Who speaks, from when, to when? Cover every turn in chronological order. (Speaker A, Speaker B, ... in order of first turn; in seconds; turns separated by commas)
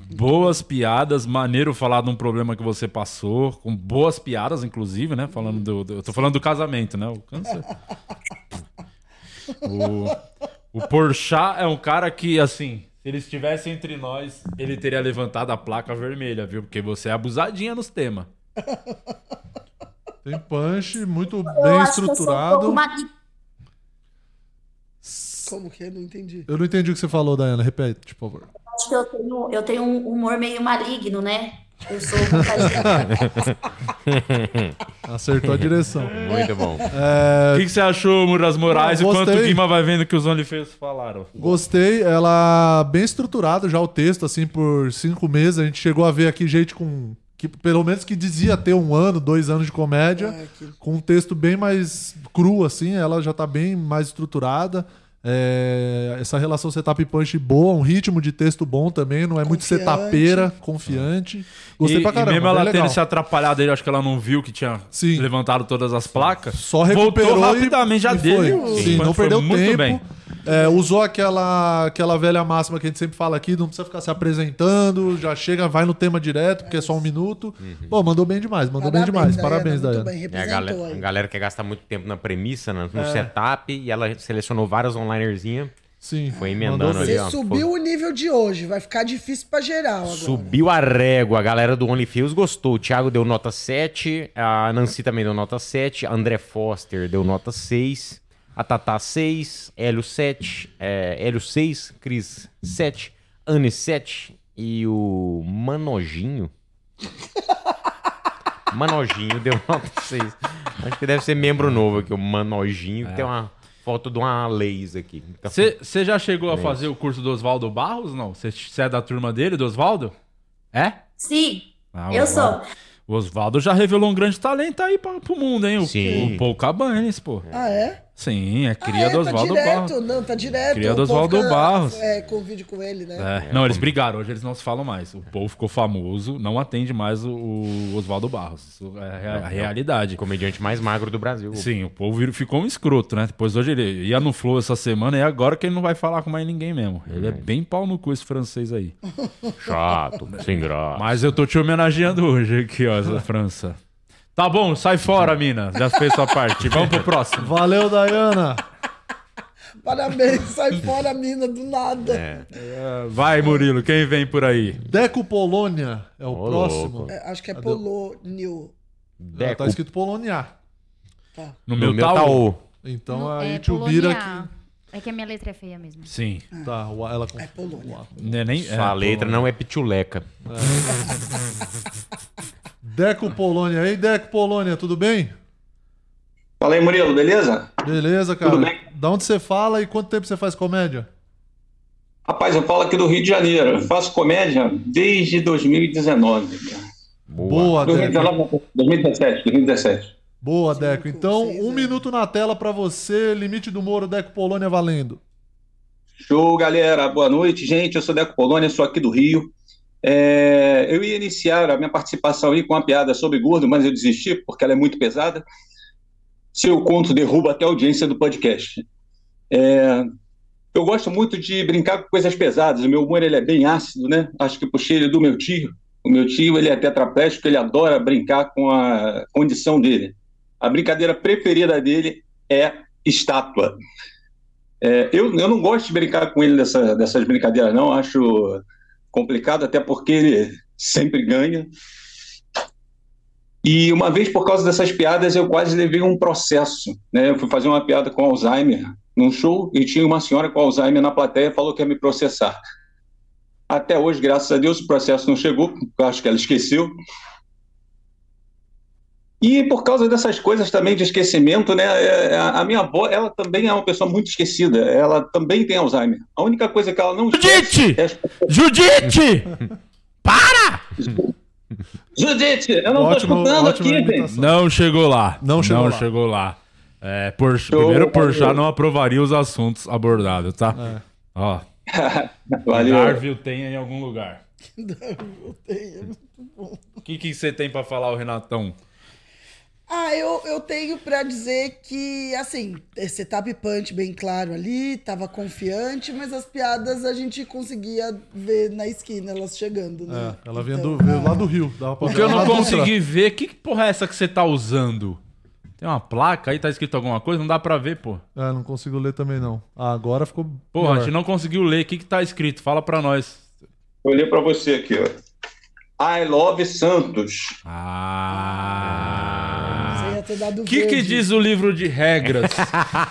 Speaker A: 0.1-7.7, Speaker A: 9.6-18.3, Speaker B: 18.6-19.0, Speaker C: 20.2-22.8, Speaker D: 21.4-23.1, Speaker C: 25.0-25.5, Speaker B: 25.4-26.5, Speaker C: 26.5-28.5, Speaker D: 28.7-33.1, Speaker C: 32.3-33.1, Speaker E: 33.0-33.5, Speaker E: 34.1-34.8, Speaker C: 35.0-36.2, Speaker E: 35.5-36.9, Speaker B: 36.3-36.6, Speaker C: 36.9-37.7, Speaker A: 37.5-41.5, Speaker C: 38.7-39.6, Speaker C: 41.4-63.0, Speaker B: 50.1-50.8, Speaker B: 59.4-60.5, Speaker A: 61.8-70.0, Speaker C: 64.9-65.3, Speaker C: 66.6-80.1, Speaker B: 68.3-69.0, Speaker E: 68.7-69.1, Speaker B: 70.5-70.8, Speaker B: 76.6-77.0, Speaker E: 77.6-77.9, Speaker B: 78.8-81.0, Speaker E: 80.3-85.7, Speaker C: 82.9-83.3, Speaker C: 86.0-87.6, Speaker B: 86.3-90.5, Speaker E: 86.3-87.4, Speaker E: 90.0-106.5, Speaker E: 108.7-115.7, Speaker A: 113.0-113.3, Speaker A: 115.5-120.1, Speaker E: 116.5-116.8, Speaker A: 120.7-121.0, Speaker D: 121.2-122.6, Speaker A: 121.9-127.5, Speaker E: 125.8-126.5, Speaker B: 126.0-126.3, Speaker E: 127.5-127.7, Speaker B: 127.5-128.0, Speaker A: 128.2-129.9, Speaker B: 128.8-133.3, Speaker A: 130.7-132.0, Speaker A: 133.2-140.2, Speaker E: 133.4-133.9, Speaker E: 139.3-141.7, Speaker A: 141.5-148.9, Speaker E: 147.1-147.4, Speaker E: 149.6-151.2, Speaker A: 150.9-153.8, Speaker A: 154.3-157.5, Speaker C: 157.4-158.6, Speaker B: 159.8-162.2, Speaker E: 162.1-162.4, Speaker A: 162.5-164.8, Speaker C: 164.8-167.8, Speaker E: 166.3-167.1, Speaker B: 167.1-168.7, Speaker E: 169.2-169.8, Speaker C: 169.3-170.5, Speaker A: 171.7-172.4, Speaker E: 171.8-172.6, Speaker C: 172.8-174.5, Speaker F: 173.1-176.1, Speaker A: 176.1-176.4, Speaker C: 176.6-179.4, Speaker B: 177.4-178.1, Speaker A: 178.2-179.0, Speaker E: 178.7-180.2, Speaker C: 180.4-181.1, Speaker C: 182.8-185.3, Speaker G: 186.6-187.7, Speaker C: 187.8-191.1, Speaker G: 188.4-188.8, Speaker G: 192.2-196.8, Speaker E: 197.3-198.1, Speaker C: 197.4-198.3, Speaker G: 197.8-200.1, Speaker C: 200.4-205.2, Speaker B: 200.7-202.0, Speaker G: 206.2-209.5, Speaker G: 210.0-215.4, Speaker G: 216.5-218.8, Speaker G: 219.5-220.1, Speaker G: 220.7-233.8, Speaker G: 234.8-241.7, Speaker G: 243.6-252.6, Speaker G: 253.7-256.9, Speaker G: 259.4-268.4, Speaker A: 267.3-269.5, Speaker A: 270.2-270.8, Speaker G: 271.0-271.3, Speaker G: 272.1-274.3, Speaker C: 272.9-274.6, Speaker A: 274.3-280.8, Speaker C: 275.4-276.1, Speaker G: 277.7-278.6, Speaker C: 280.7-281.0, Speaker A: 281.3-281.6, Speaker G: 281.9-283.2, Speaker A: 282.7-284.4, Speaker B: 284.8-286.9, Speaker A: 287.0-288.7, Speaker B: 289.9-301.5, Speaker C: 300.1-302.9, Speaker B: 302.0-302.8, Speaker A: 302.0-305.2, Speaker A: 305.8-308.2, Speaker C: 308.4-311.1, Speaker A: 310.7-313.5, Speaker G: 314.0-315.1, Speaker G: 316.0-317.6, Speaker A: 317.6-322.8, Speaker E: 319.3-319.7, Speaker B: 319.9-321.3